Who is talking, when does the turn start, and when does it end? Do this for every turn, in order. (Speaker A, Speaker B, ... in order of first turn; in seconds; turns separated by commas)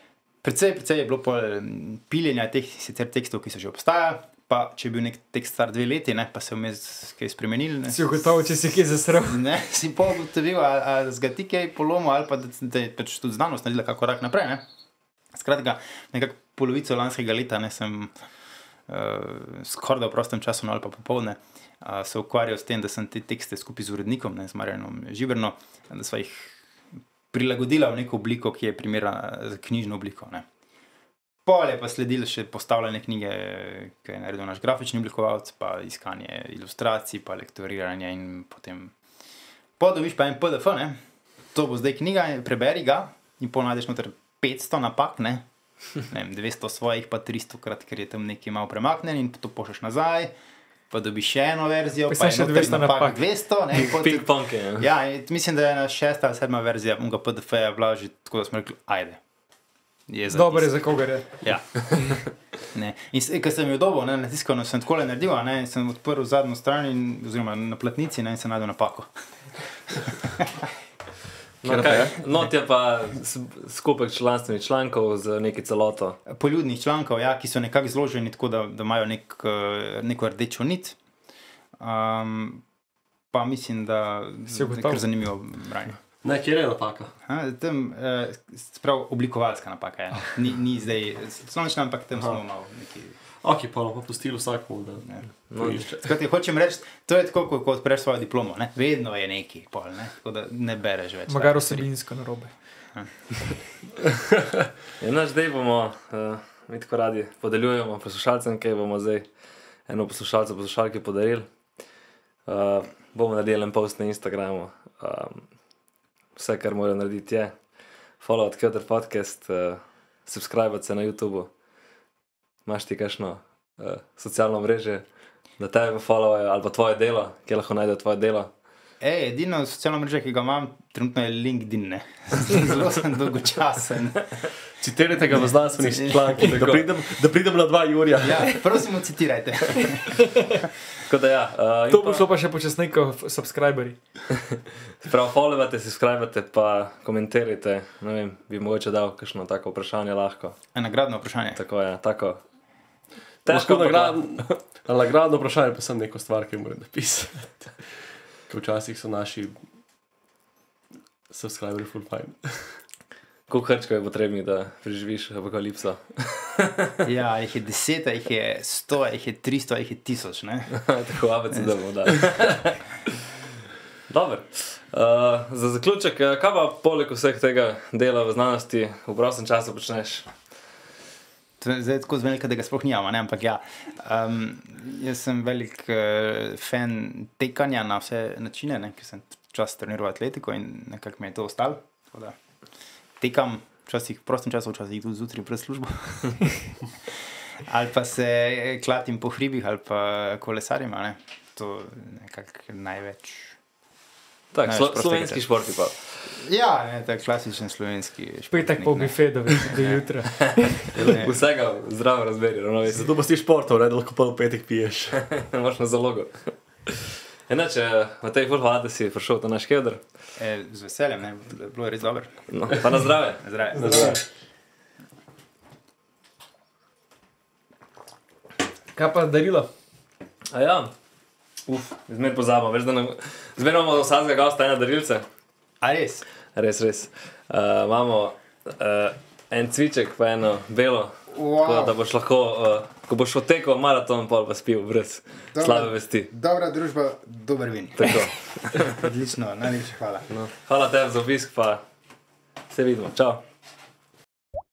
Speaker A: 0.4-8.6, Speaker B: 7.9-9.5, Speaker A: 9.2-14.7, Speaker A: 15.3-18.1, Speaker A: 18.9-26.6, Speaker A: 27.3-30.5, Speaker A: 31.5-38.9, Speaker A: 39.8-41.0, Speaker A: 41.5-45.4, Speaker A: 46.0-50.3, Speaker A: 50.9-59.2, Speaker B: 52.1-53.2, Speaker C: 53.8-54.9, Speaker A: 60.1-69.1, Speaker B: 60.3-61.3, Speaker A: 69.6-70.7, Speaker C: 71.6-76.2, Speaker D: 71.6-72.3, Speaker A: 76.3-81.0, Speaker A: 81.8-82.6, Speaker A: 83.3-86.0, Speaker B: 84.5-85.0, Speaker D: 86.2-87.1, Speaker A: 87.2-93.2, Speaker D: 93.4-96.1, Speaker C: 95.5-95.8, Speaker A: 95.9-101.9, Speaker B: 101.3-102.5, Speaker C: 105.0-109.3, Speaker C: 109.9-111.5, Speaker C: 112.5-115.5, Speaker C: 116.4-117.6, Speaker C: 118.2-121.5, Speaker C: 122.7-125.1, Speaker C: 125.6-128.5, Speaker A: 129.0-134.5, Speaker D: 134.8-138.6, Speaker A: 135.8-136.4, Speaker C: 136.4-136.9, Speaker A: 138.2-140.2, Speaker C: 141.0-142.3, Speaker B: 141.9-144.0, Speaker C: 145.0-150.6, Speaker A: 150.7-151.6, Speaker C: 151.6-152.4, Speaker C: 153.4-154.5, Speaker D: 153.5-159.6, Speaker D: 161.3-162.8, Speaker C: 163.5-167.0, Speaker A: 167.1-170.9, Speaker C: 170.7-173.1, Speaker C: 174.1-180.3, Speaker A: 181.6-192.4, Speaker A: 193.2-203.6, Speaker C: 204.5-206.3, Speaker A: 204.6-205.4, Speaker A: 206.2-210.2, Speaker B: 208.5-210.8, Speaker A: 210.8-211.4, Speaker D: 211.0-211.2, Speaker C: 211.1-213.1, Speaker D: 212.9-215.2, Speaker C: 215.2-220.0, Speaker A: 220.4-222.8, Speaker C: 222.5-224.2, Speaker A: 223.4-224.2, Speaker D: 223.8-224.2, Speaker B: 228.9-229.7, Speaker C: 230.5-230.9, Speaker C: 231.7-235.3, Speaker A: 235.8-236.2, Speaker C: 236.5-246.3, Speaker A: 241.3-242.0, Speaker A: 245.5-250.3, Speaker C: 248.0-249.0, Speaker C: 250.3-251.8, Speaker C: 252.7-253.4